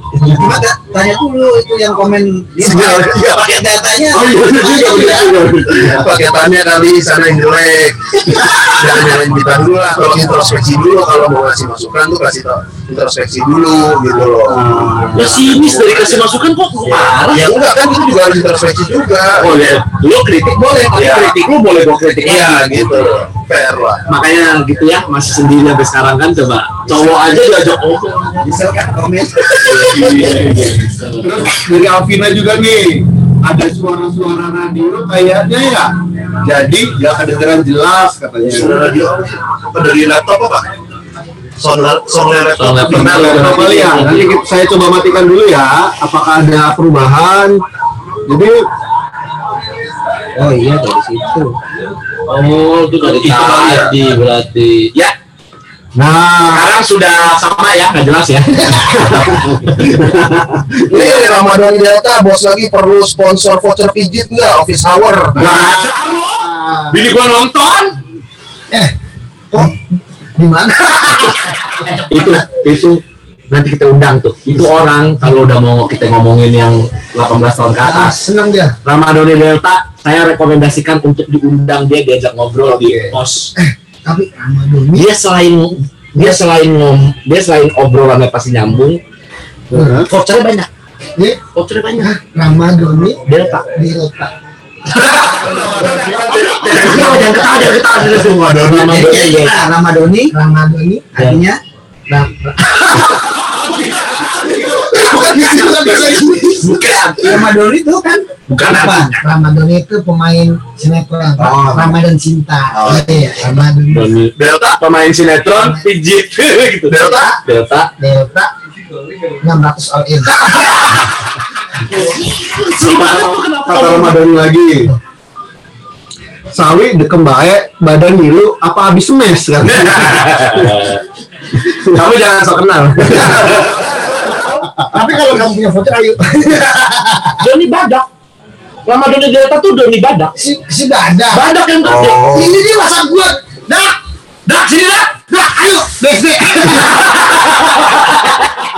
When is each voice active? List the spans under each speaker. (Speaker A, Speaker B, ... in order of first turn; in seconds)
Speaker A: 0.2-5.3, 14.7-15.4, 28.4-29.6, 50.3-51.6, 98.7-100.3, 101.1-101.6, 107.2-109.2, 111.4-112.0, 112.7-113.3
Speaker B: 2.6-3.4, 5.8-16.2, 17.1-19.5, 20.9-21.3, 22.2-24.0, 38.4-40.6, 41.6-43.7, 53.1-54.0, 60.8-65.6, 95.1-97.2, 114.4-114.8, 116.9-117.4, 141.8-142.5
Speaker C: 4.1-6.0, 14.5-15.3, 29.6-35.9, 36.4-38.8, 42.9-47.6, 48.2-48.6, 55.9-56.7, 59.1-60.5, 82.6-83.2, 89.7-90.1, 123.6-124.9, 126.5-130.9
Speaker D: 4.9-5.2, 58.5-59.3, 66.4-67.0, 69.5-72.2, 77.8-78.8, 83.5-85.1, 86.2-86.4, 89.7-90.1, 92.0-94.3, 95.4-96.1, 96.7-97.5, 100.3-101.1, 102.1-103.2, 104.9-106.7, 109.2-114.1, 118.0-118.5, 119.4-120.6, 134.3-137.4, 140.3-141.5, 142.3-144.0, 145.3-147.2
Speaker E: 15.1-17.5, 19.4-23.2, 24.1-28.5, 29.5-31.4, 42.6-44.4, 52.3-55.1, 56.5-60.1, 65.3-68.0, 71.9-78.2, 78.8-83.5, 84.9-89.0, 90.0-90.7, 91.5-92.1, 93.2-93.6, 95.1-99.6, 101.2-101.4, 103.5-105.4, 106.4-107.5, 108.5-109.2, 113.9-117.9, 120.3-121.0, 121.8-124.2, 129.6-131.0, 131.8-133.7, 137.4-138.1, 138.8-140.3, 141.3-142.2, 144.4-145.3, 146.7-148.3